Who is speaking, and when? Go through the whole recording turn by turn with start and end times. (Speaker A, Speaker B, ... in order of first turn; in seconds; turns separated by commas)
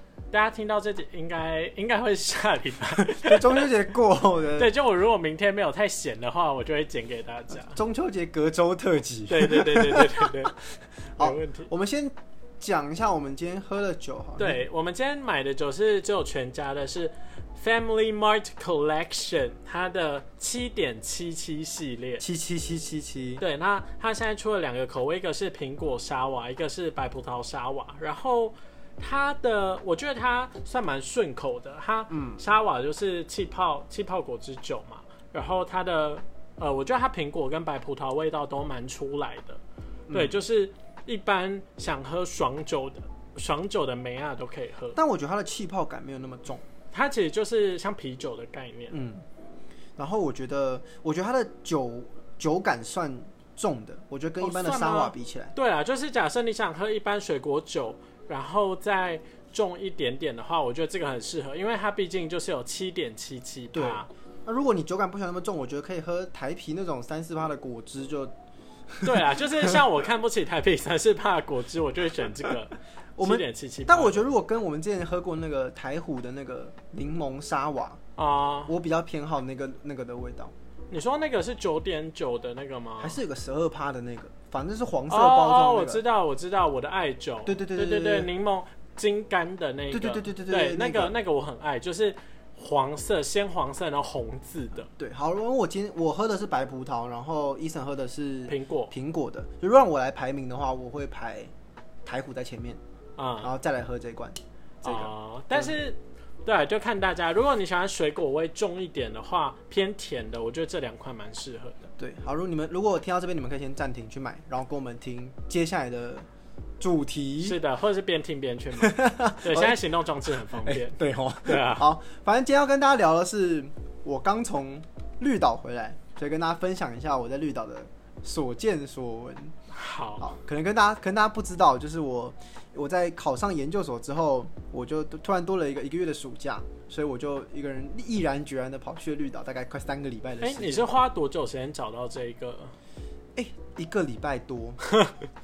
Speaker A: 0.3-3.7, Speaker B: 3.0-4.7, Speaker A: 4.5-7.8, Speaker B: 7.5-10.6, Speaker A: 9.3-10.6, Speaker B: 11.2-14.6, Speaker A: 11.2-11.7, Speaker A: 14.4-22.2, Speaker B: 22.2-23.4, Speaker A: 23.4-45.0, Speaker B: 32.1-32.4, Speaker B: 40.1-40.4, Speaker B: 44.9-46.6, Speaker A: 46.9-49.0, Speaker B: 48.9-49.2, Speaker B: 50.0-55.5, Speaker A: 54.4-64.1, Speaker B: 63.7-68.3, Speaker B: 68.9-69.8, Speaker A: 69.0-74.2, Speaker B: 73.2-78.0, Speaker A: 78.2-78.7, Speaker B: 78.7-80.5, Speaker A: 80.9-83.2, Speaker B: 83.0-86.0, Speaker A: 85.1-94.9, Speaker B: 87.5-88.3, Speaker B: 89.9-91.2, Speaker B: 94.9-101.5, Speaker A: 98.5-98.9, Speaker B: 102.0-102.8, Speaker A: 103.2-103.5, Speaker B: 103.4-105.8, Speaker A: 104.8-111.9, Speaker B: 112.0-116.3, Speaker B: 116.8-117.6, Speaker A: 117.4-121.8, Speaker B: 118.8-119.8, Speaker B: 120.5-129.5, Speaker A: 129.7-130.2, Speaker B: 130.2-140.9, Speaker A: 140.4-142.7, Speaker B: 143.3-144.8